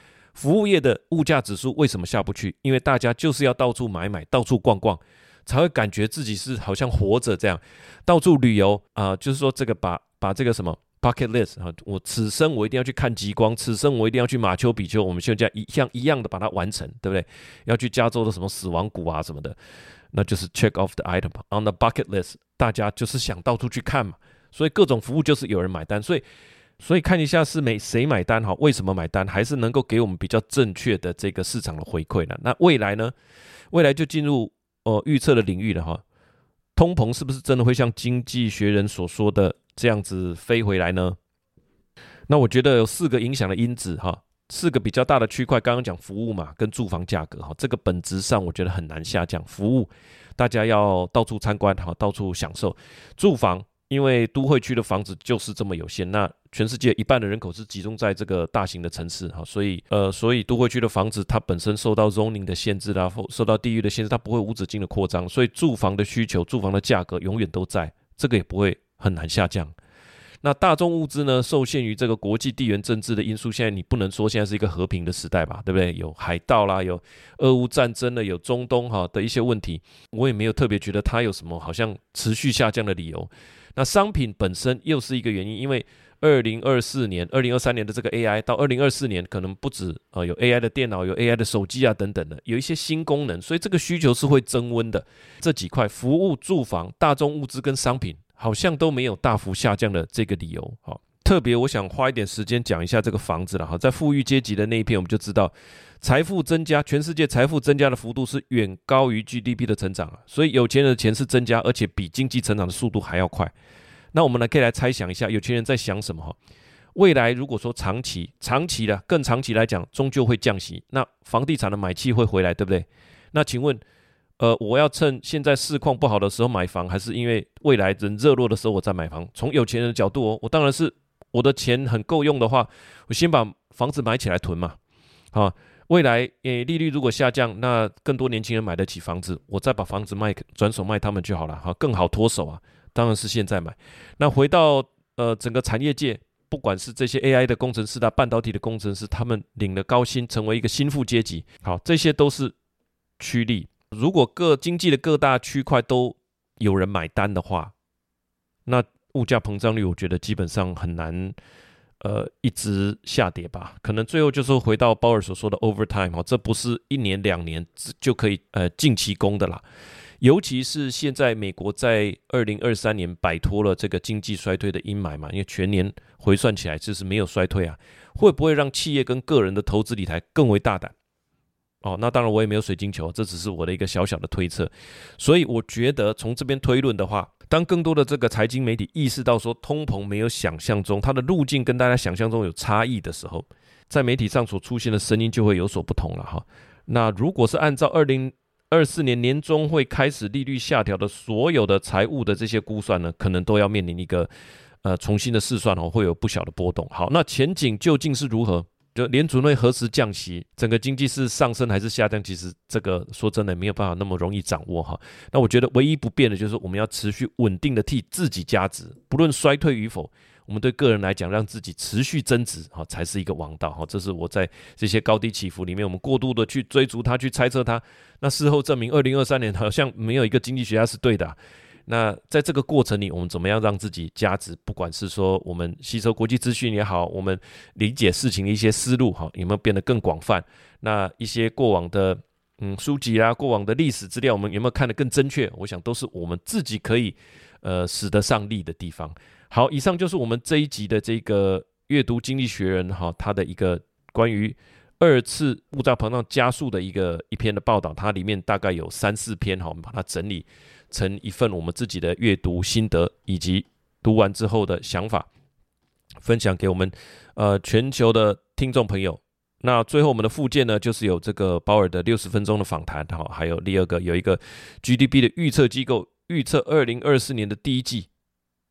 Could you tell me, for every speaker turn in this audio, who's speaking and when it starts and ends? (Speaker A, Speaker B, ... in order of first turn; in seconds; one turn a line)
Speaker A: 0.3-19.6
Speaker A: 20.1-26.2
Speaker A: 26.8-33.1
Speaker A: 33.7-36.0
Speaker A: 36.8-41.2
Speaker A: 42.3-69.8
Speaker A: 70.4-113.5
Speaker A: 114.1-116.4
Speaker A: 117.0-123.8
Speaker A: 124.4-134.8
Speaker A: 135.3-152.6
Speaker A: 153.2-157.7
Speaker A: 158.7-161.4
Speaker A: 162.0-169.6
Speaker A: 170.2-180.9
Speaker A: 181.8-204.3
Speaker A: 204.8-265.3
Speaker A: 266.2-278.1